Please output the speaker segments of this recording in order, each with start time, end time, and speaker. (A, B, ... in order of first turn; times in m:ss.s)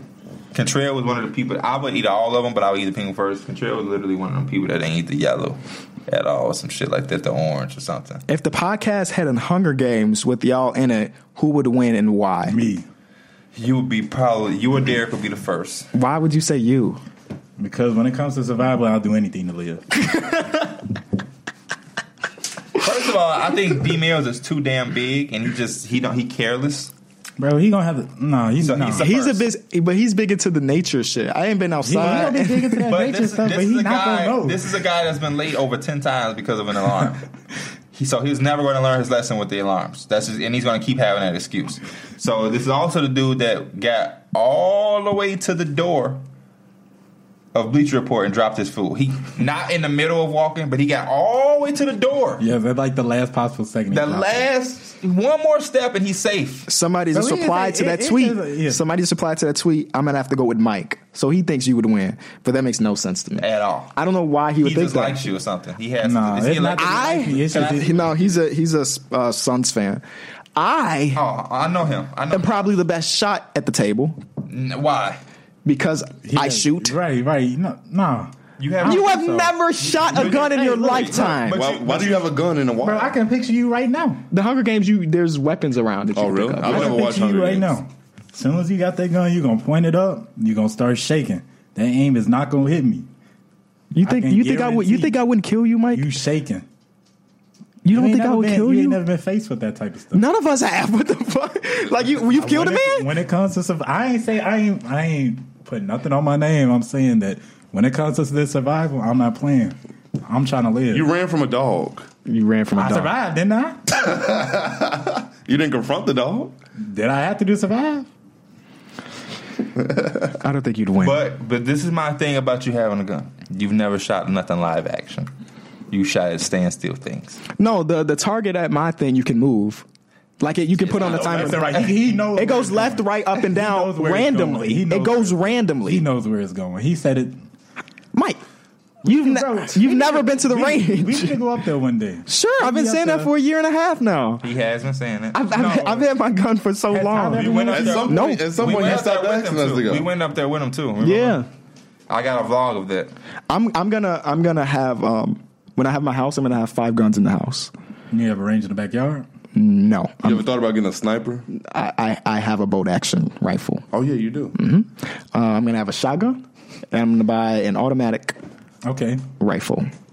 0:00.5-0:08.2 A
0:08.3-0:12.6 B
0:12.5-0:12.8 C
0:13.5-0:15.9 A
0:15.9-0:17.0 B
0:17.6-0:20.1 C
0:22.7-0:26.9 A
0:27.4-0:29.0 C
0:28.6-0:29.5 A
0:29.0-0:32.9 B
0:31.8-0:34.6 C
0:32.0-0:32.3 A
0:32.8-0:37.2 A
0:37.9-0:46.2 A
0:47.5-0:52.4 A
0:52.4-0:54.4 C
0:53.9-0:56.7 A
0:56.7-1:05.2 B
0:57.1-0:58.8 C
1:03.4-1:03.9 A
1:04.6-1:08.3 A
1:06.0-1:07.9 C
1:06.8-1:10.0 B
1:10.6-1:11.2 B
1:11.1-1:12.7 A
1:12.3-1:14.2 B
1:14.5-1:15.2 A
1:15.6-1:17.0 B
1:16.2-1:19.5 C
1:18.6-1:22.3 A
1:18.8-1:21.6 B
1:20.0-1:21.4 C
1:21.5-1:23.2 D
1:22.8-1:24.2 C
1:24.3-1:27.0 B
1:26.1-1:27.8 D
1:26.6-1:33.1 C
1:33.9-1:36.0 B
1:34.0-1:35.2 C
1:35.9-1:36.6 C
1:37.8-1:39.0 B
1:37.9-1:40.2 C
1:40.1-1:43.1 B
1:42.3-1:51.0 C
1:50.9-1:52.1 D
1:52.2-1:53.1 B
1:52.7-1:53.8 C
1:53.9-1:56.5 D
1:56.8-1:58.1 C
2:00.4-2:01.2 B
2:01.0-2:05.3 A
2:05.9-2:07.4 A
2:07.6-2:09.8 B
2:10.4-2:11.8 B
2:10.8-2:12.2 A
2:11.2-2:17.4 C
2:12.3-2:16.0 B
2:18.1-2:18.4 B
2:19.0-2:23.3 C
2:19.0-2:21.4 B
2:22.2-2:24.4 B
2:24.4-2:25.5 A
2:25.3-2:28.5 B
2:25.5-2:26.1 C
2:26.9-2:28.0 C
2:27.2-2:31.4 A
2:27.7-2:30.1 D
2:31.0-2:31.5 B
2:32.1-2:33.1 A
2:33.5-2:37.7 B
2:38.1-2:39.2 C
2:39.5-2:40.4 B
2:40.2-2:41.4 D
2:41.5-2:43.8 B
2:43.9-2:44.6 D
2:44.5-2:46.4 B
2:46.9-2:48.4 B
2:48.8-2:49.2 C
2:49.4-2:49.9 B